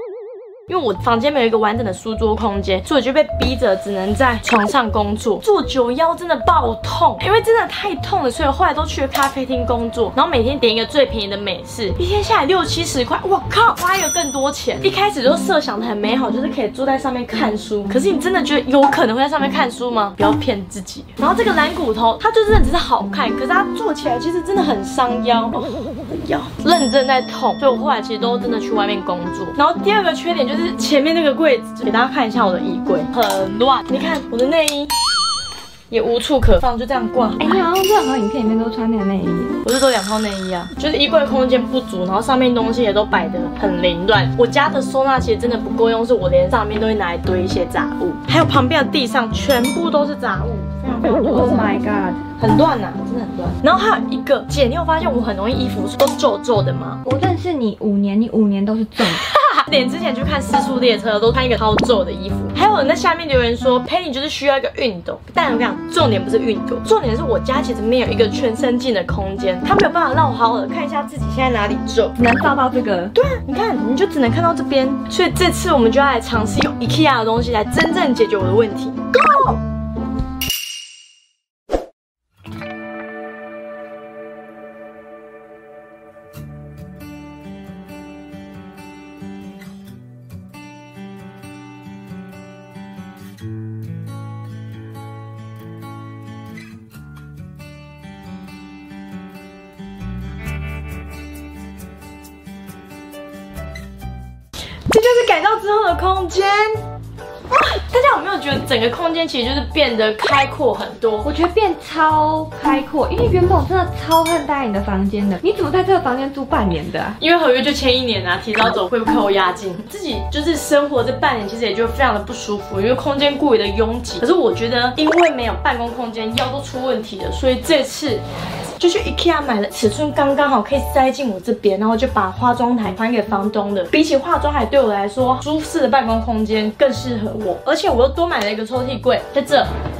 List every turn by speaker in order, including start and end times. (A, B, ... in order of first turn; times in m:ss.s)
0:00.7-0:34.9 A
0:35.9-0:37.6 A
0:37.4-0:39.6 B
0:39.6-0:51.7 A
0:51.3-0:52.2 B
0:52.4-0:57.0 A
0:57.0-0:59.3 B
0:59.0-1:12.2 A
1:12.2-1:13.1 B
1:13.1-1:19.6 A
1:44.9-1:46.8 A
1:47.5-1:51.3 A
1:51.2-1:57.2 B
1:57.2-2:08.2 A
2:08.8-2:19.7 A